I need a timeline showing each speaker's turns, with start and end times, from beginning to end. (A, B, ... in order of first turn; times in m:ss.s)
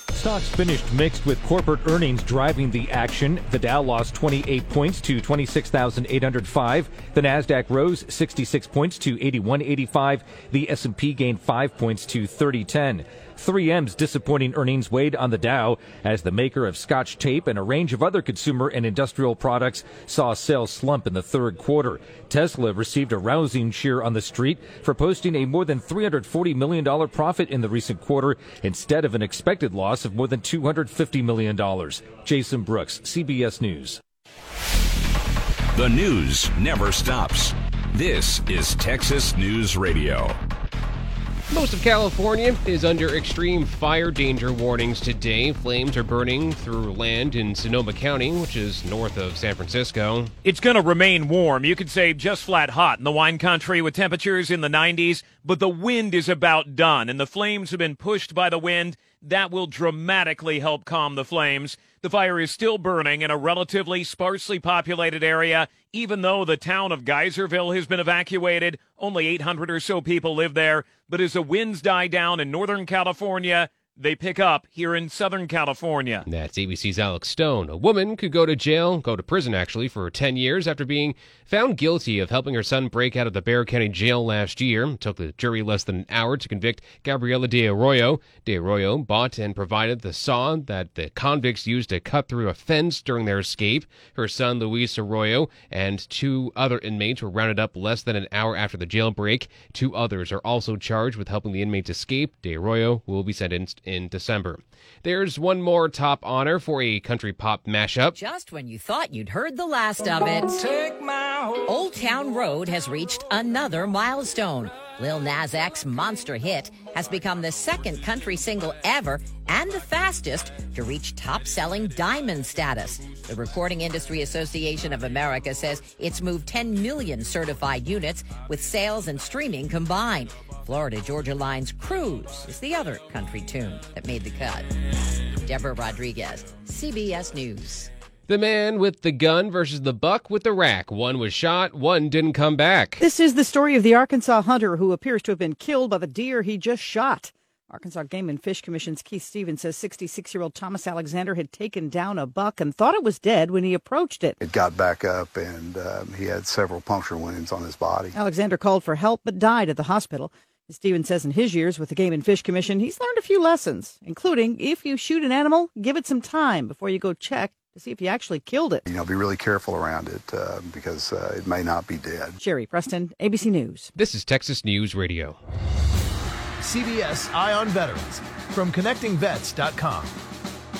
0:00.1-0:34.0 A
0:35.7-0:40.4 B
0:41.5-0:50.3 C
0:50.4-1:16.1 D
1:16.3-1:48.2 C
1:48.1-1:50.7 E
1:51.6-2:14.7 E
2:15.4-2:17.9 E
2:18.3-2:23.0 C
2:23.0-2:34.4 F
2:34.4-2:38.1 G
2:38.2-2:48.8 F
2:48.9-2:52.3 G
2:52.4-2:53.9 F
2:54.0-2:55.4 C
2:56.6-3:00.1 H